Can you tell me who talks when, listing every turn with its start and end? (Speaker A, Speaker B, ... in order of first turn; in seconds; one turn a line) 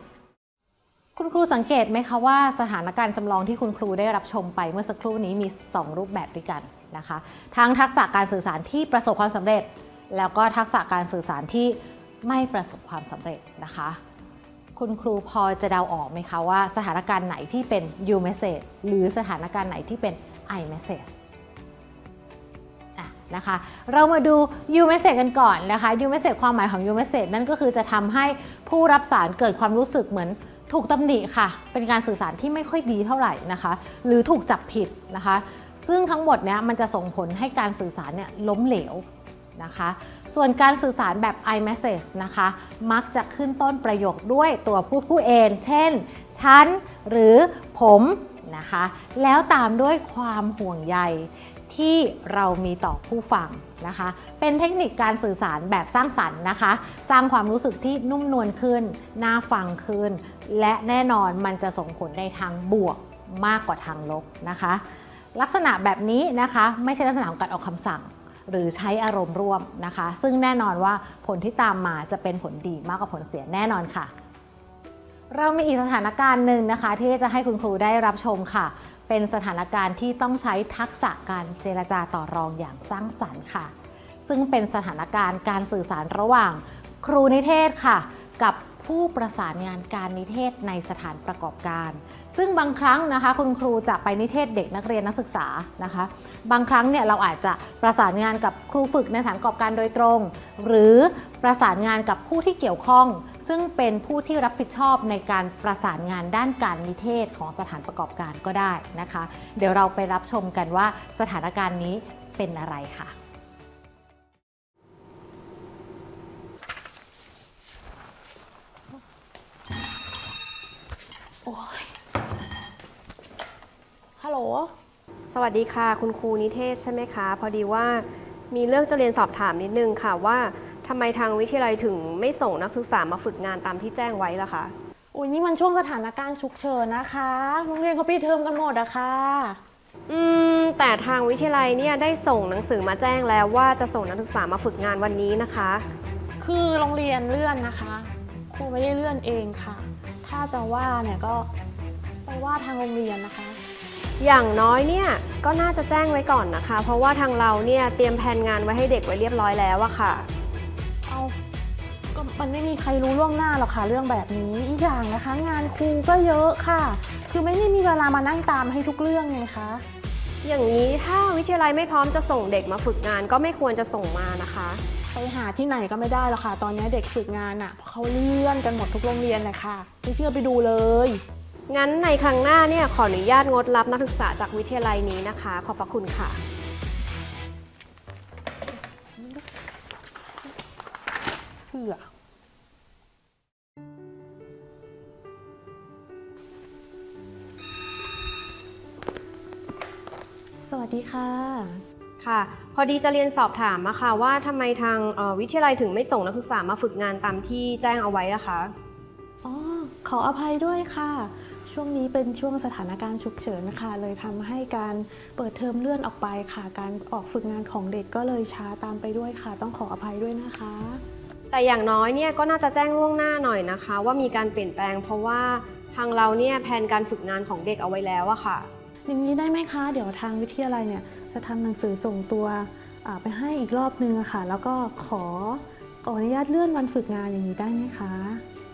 Speaker A: 1.1-14.0
Speaker A: 14.8-21.1
Speaker A: 22.9-39.0
Speaker A: 39.6-64.8
Speaker A: 65.3-74.1
Speaker A: 75.3-83.7
Speaker A: 84.3-113.1
Speaker B: 121.4-121.9
Speaker B: 124.2-124.7
Speaker C: 125.3-134.7
Speaker B: 135.1-139.6
Speaker C: 140.1-145.8
Speaker B: 146.4-151.5
Speaker B: 152.2-153.6
Speaker C: 154.2-160.3
Speaker B: 161.1-161.4
Speaker B: 162.1-169.8
Speaker C: 170.4-174.8
Speaker B: 175.1-181.2
Speaker C: 181.7-186.4
Speaker B: 189.2-189.4
Speaker B: 191.7-192.1
Speaker B: 200.6-201.8
Speaker C: 202.2-208.7
Speaker B: 209.4-221.0
Speaker C: 221.5-228.7
Speaker B: 229.1-238.4